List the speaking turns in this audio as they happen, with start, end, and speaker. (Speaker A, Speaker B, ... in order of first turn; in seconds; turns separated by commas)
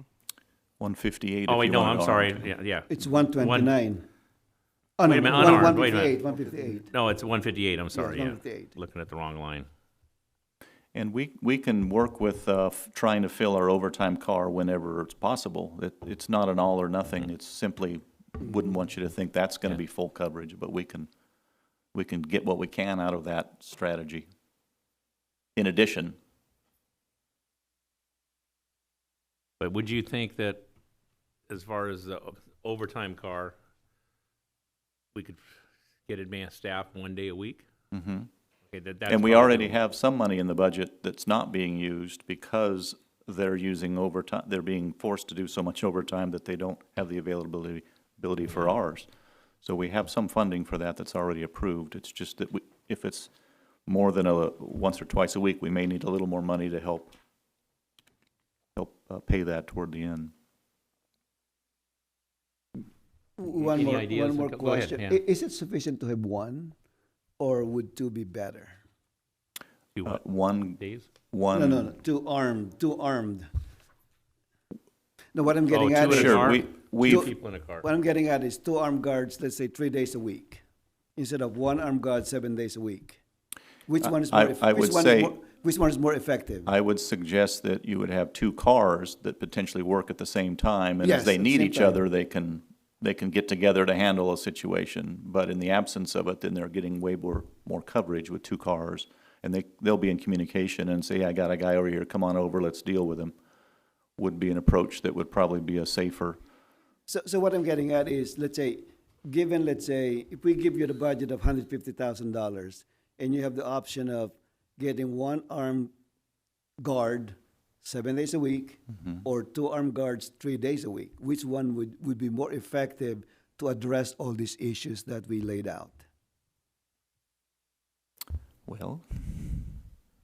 Speaker A: 0.8-2.5, Speaker B: 1.5-3.8, Speaker C: 2.9-4.1, Speaker C: 5.0-6.9, Speaker B: 5.0-6.2, Speaker B: 6.7-9.7, Speaker C: 7.9-8.7, Speaker A: 10.9-21.1, Speaker A: 21.9-24.3, Speaker A: 25.6-26.2, Speaker B: 29.6-30.7, Speaker B: 31.5-33.5, Speaker B: 35.1-35.4, Speaker B: 36.1-37.7, Speaker A: 37.9-38.3, Speaker B: 38.7-39.8, Speaker A: 39.1-49.1, Speaker A: 49.6-53.3, Speaker A: 53.9-57.1, Speaker A: 58.8-60.3, Speaker C: 63.4-66.8, Speaker B: 63.6-65.2, Speaker C: 67.4-68.8, Speaker B: 69.9-70.2, Speaker A: 70.0-71.9, Speaker B: 70.8-71.1, Speaker C: 71.5-73.5, Speaker C: 75.3-80.6, Speaker B: 75.7-77.8, Speaker A: 76.1-77.3, Speaker C: 81.2-83.2, Speaker C: 83.9-86.7, Speaker A: 84.0-85.3, Speaker A: 86.7-103.3, Speaker C: 91.0-92.0, Speaker A: 104.2-106.4, Speaker C: 107.1-115.9, Speaker C: 116.8-126.0, Speaker A: 128.7-129.8